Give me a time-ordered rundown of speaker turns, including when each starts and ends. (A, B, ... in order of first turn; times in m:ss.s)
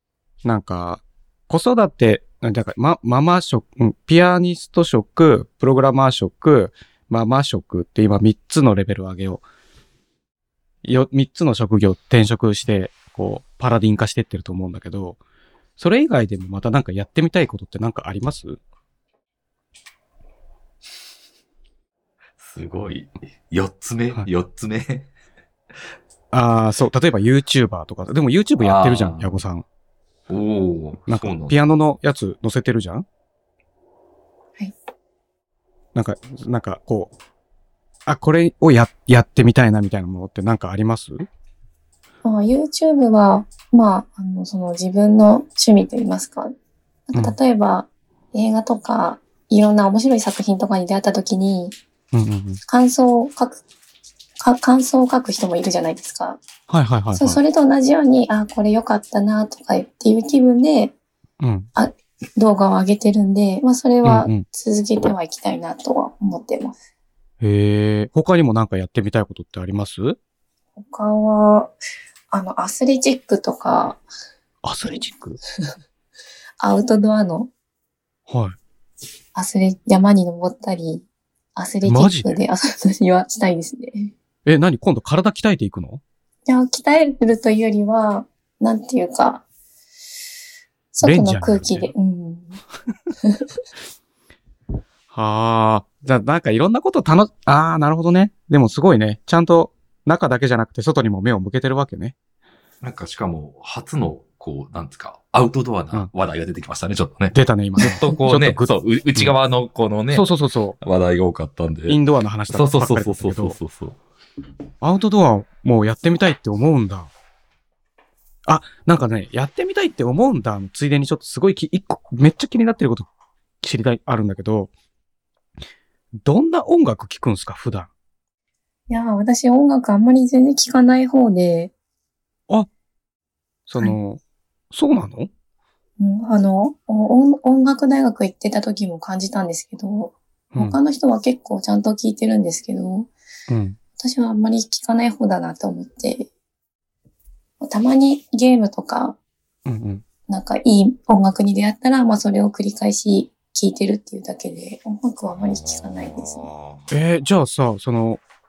0:00.4-0:09.4 A
0:10.8-0:15.2 A
0:15.8-0:18.6 A
0:22.4-0:25.1 B
0:26.3-0:29.6 A
0:28.6-0:29.3 B
0:30.3-0:31.6 B
0:31.1-0:33.1 A
0:36.0-0:37.1 A
0:38.1-0:41.3 A
0:42.2-0:46.5 C
0:47.1-0:51.8 C
0:52.1-0:52.6 A
0:52.7-0:53.6 C
0:54.4-0:56.4 C
0:56.7-0:57.4 A
0:57.1-1:01.0 C
1:01.4-1:01.7 A
1:01.8-1:06.8 C
1:04.0-1:04.4 A
1:07.4-1:10.2 A
1:10.8-1:11.8 C
1:12.3-1:14.0 C
1:14.6-1:15.4 A
1:16.6-1:17.5 C
1:18.3-1:18.6 A
1:19.4-1:24.1 C
1:21.8-1:22.3 A
1:24.4-1:26.0 A
1:26.5-1:29.4 C
1:30.9-1:32.6 C
1:31.0-1:31.9 A
1:35.1-1:42.2 A
1:42.8-1:50.3 B
1:47.3-1:49.3 A
1:50.1-1:50.8 A
1:50.8-1:52.0 B
1:51.9-1:53.6 A
1:52.5-1:54.0 B
1:54.8-1:57.1 A
1:58.5-2:03.1 A
2:03.6-2:04.7 A
2:06.2-2:07.9 A
2:08.9-2:11.7 C
2:13.7-2:15.3 A
2:16.0-2:23.1 C
2:20.5-2:20.8 A
2:23.5-2:23.8 A
2:24.0-2:26.3 C
2:27.6-2:29.2 C
2:29.7-2:30.0 A
2:30.3-2:36.5 C
2:35.4-2:36.8 B
2:36.9-2:38.2 A